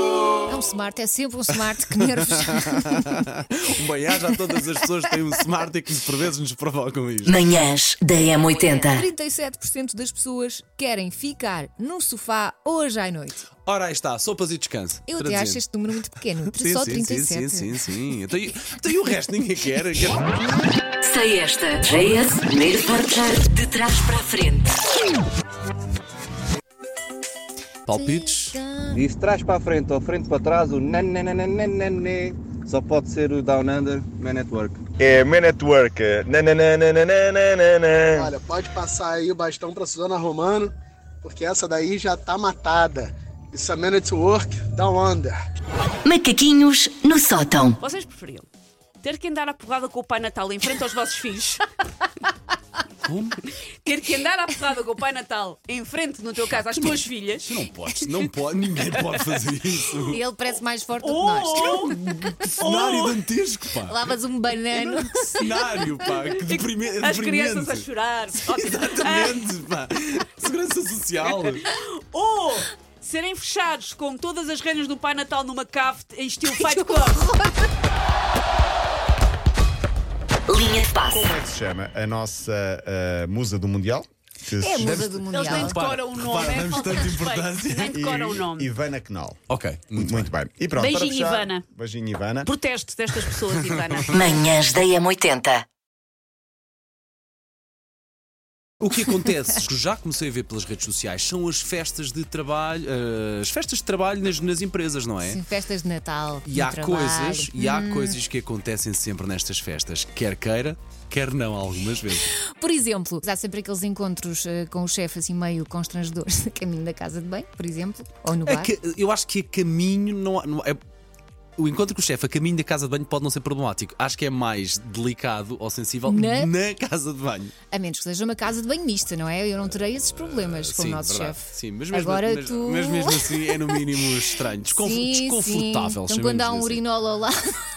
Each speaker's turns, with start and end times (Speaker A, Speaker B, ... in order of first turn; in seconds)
Speaker A: 0.5-3.1, 8.9-13.5, 15.1-18.1, 27.9-29.0, 60.0-62.6, 63.8-65.5, 76.6-77.5, 84.6-85.9, 105.2-108.2, 112.4-118.7, 126.0-126.5, 127.7-137.3
Speaker B: 1.9-7.4, 13.6-15.7, 16.5-20.3, 27.9-28.6, 53.0-53.4, 56.5-60.3, 61.8-64.2, 65.0-71.7, 84.8-88.0, 89.5-90.3, 93.5-94.1, 98.8-105.4, 106.4-112.3, 118.4-120.8, 121.6-127.5, 129.7-136.8
Speaker C: 7.2-9.1, 21.0-24.8, 46.0-47.8, 80.5-81.3, 94.1-95.6
Speaker D: 28.9-34.8
Speaker E: 35.0-38.2
Speaker F: 38.1-40.7, 41.2-45.4
Speaker G: 47.8-48.5, 49.0-51.6, 53.8-57.6, 61.0-61.9, 62.6-63.2, 65.8-69.4, 71.2-77.2, 85.3-88.7, 90.8-91.6, 92.4-94.2
Speaker H: 81.1-85.2, 87.9-89.4, 90.0-92.5